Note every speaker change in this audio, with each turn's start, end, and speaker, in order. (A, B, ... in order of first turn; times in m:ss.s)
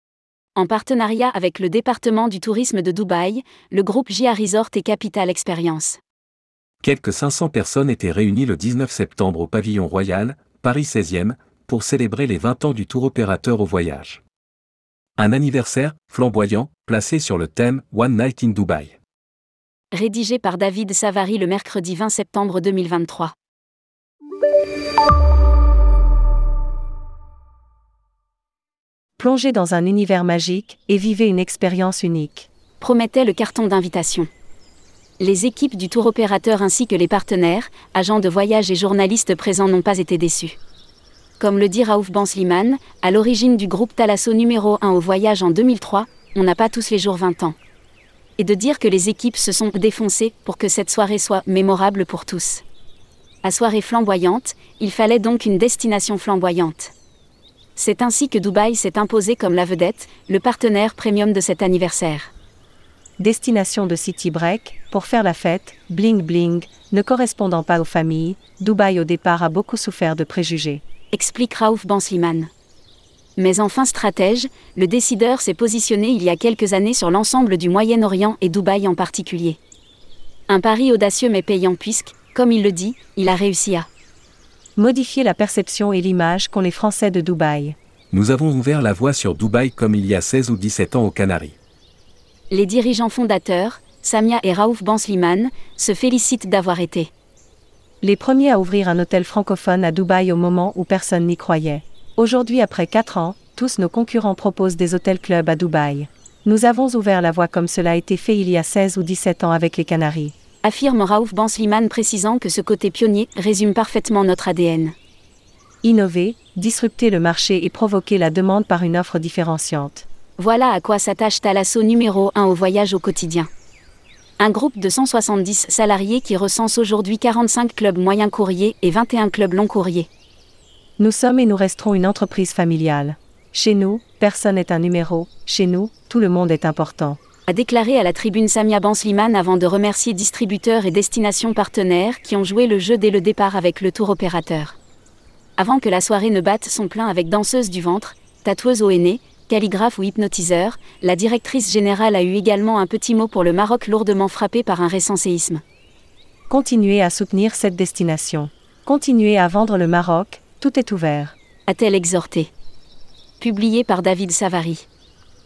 0:00.5-0:06.0 A
0:06.8-0:14.2 B
0:15.2-0:19.0 B
0:19.9-0:23.3 A
0:29.2-0:32.5 C
0:32.8-0:34.3 A
0:35.2-0:40.6 A
0:41.4-0:47.6 A
0:48.4-0:52.6 A
0:53.4-0:56.9 A
0:57.7-1:02.3 A
1:03.2-1:10.8 C
1:11.1-1:12.5 A
1:13.4-1:19.6 A
1:20.5-1:23.9 A
1:24.8-1:27.8 C
1:28.1-1:31.6 B
1:32.5-1:37.1 A
1:38.0-1:50.3 C
1:50.6-1:54.9 A
1:55.8-2:00.1 C
2:00.4-2:03.5 A
2:04.4-2:10.1 A
2:11.0-2:17.2 C
2:17.5-2:24.8 A
2:25.6-2:35.6 A
2:36.5-2:41.4 C
2:41.7-2:42.5 A
2:43.4-2:44.8 A